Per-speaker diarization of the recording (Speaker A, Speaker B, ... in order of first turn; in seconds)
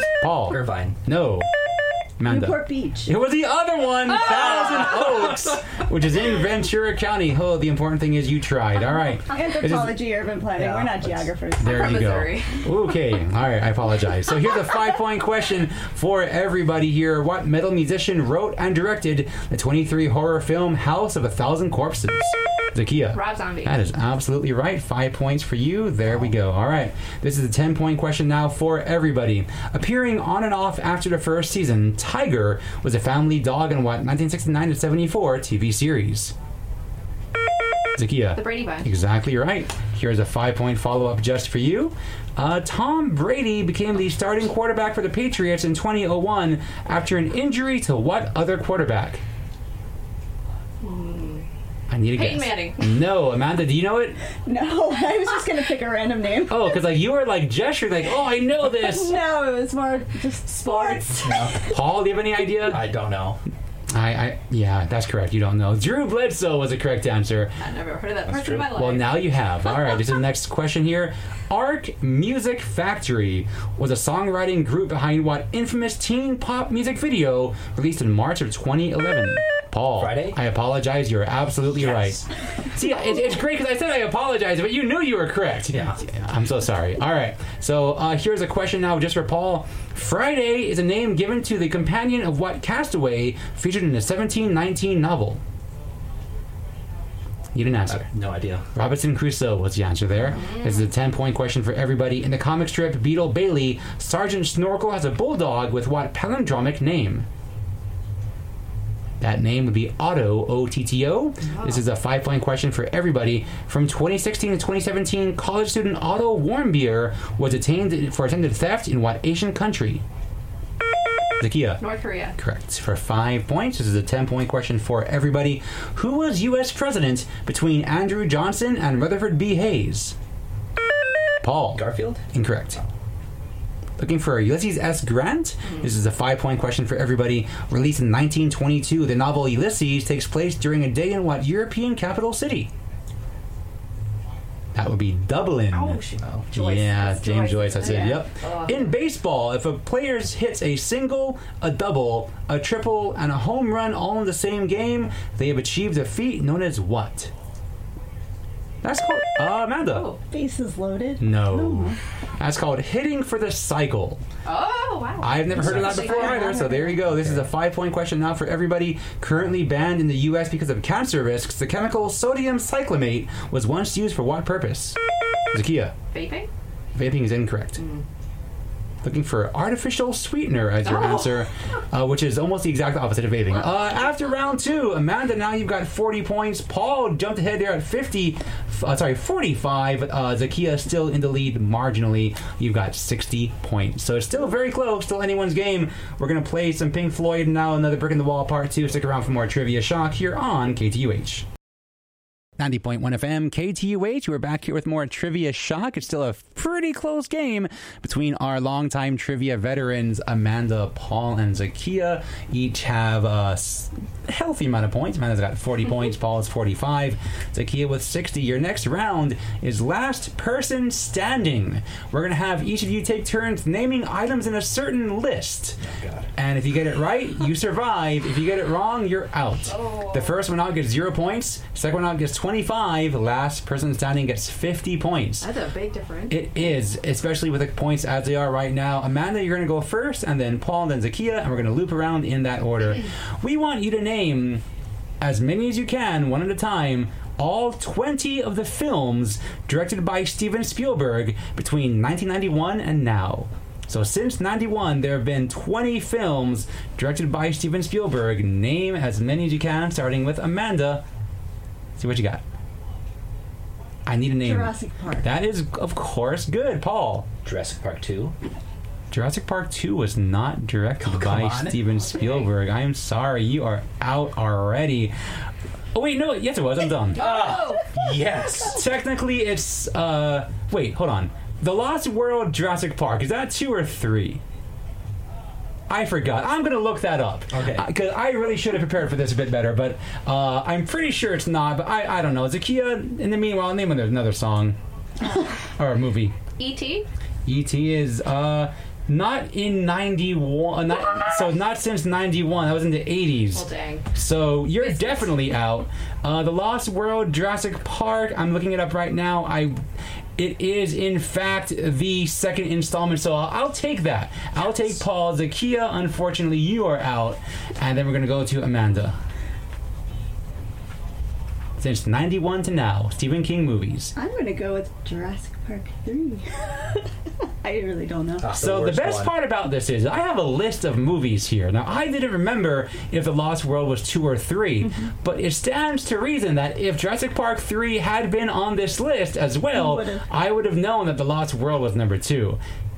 Speaker A: 0.2-1.5, 2.2-10.1, 11.6-36.3, 38.0-49.2, 51.9-54.2, 56.5-59.2, 61.7-62.9, 63.9-67.6, 68.7-95.4, 97.5-98.1, 98.7-107.3, 109.2-120.0, 121.4-121.8, 122.4-130.2, 131.4-132.8, 134.0-142.7, 144.7-146.0, 146.5-157.3, 158.8-160.1, 161.2-164.2, 165.2-175.0, 175.5-175.9, 176.9-177.8, 179.0-201.5, 202.6-225.8, 226.4-235.5, 236.3-244.6, 245.2-261.0, 262.0-262.4, 264.1-267.3, 269.1-275.1, 275.9-277.3, 278.7-284.4, 285.9-294.8, 295.8-296.4, 297.4-309.8, 310.4-319.2, 321.8-324.1, 328.6-342.6
Speaker B: 0.5-1.0, 10.5-11.3, 61.2-61.7, 62.6-63.4, 68.3-68.8, 80.0-80.4, 81.8-82.2, 85.7-86.0, 97.9-98.7, 131.8-132.2, 146.2-146.5, 165.6-166.4, 167.2-167.4, 225.8-226.3, 267.4-268.3, 271.0-271.8, 277.2-278.8, 287.5-287.9, 328.4-329.3
Speaker C: 2.3-3.1, 9.3-11.9, 54.5-56.7, 58.7-61.5, 160.3-162.0, 166.2-167.0, 264.4-265.3, 324.1-327.1, 327.6-328.5, 339.7-340.2
Speaker D: 11.6-12.7, 23.1-23.9, 38.4-38.9, 50.8-51.5, 52.1-52.9, 60.6-61.4, 67.6-69.2, 100.3-100.9, 111.5-111.8, 121.8-122.4, 145.7-148.9, 159.8-160.2, 164.4-166.6, 176.1-176.5, 180.8-181.4, 229.7-230.4, 235.4-236.6, 272.1-272.5, 277.2-278.0, 296.6-297.1, 303.5-304.1, 304.8-305.2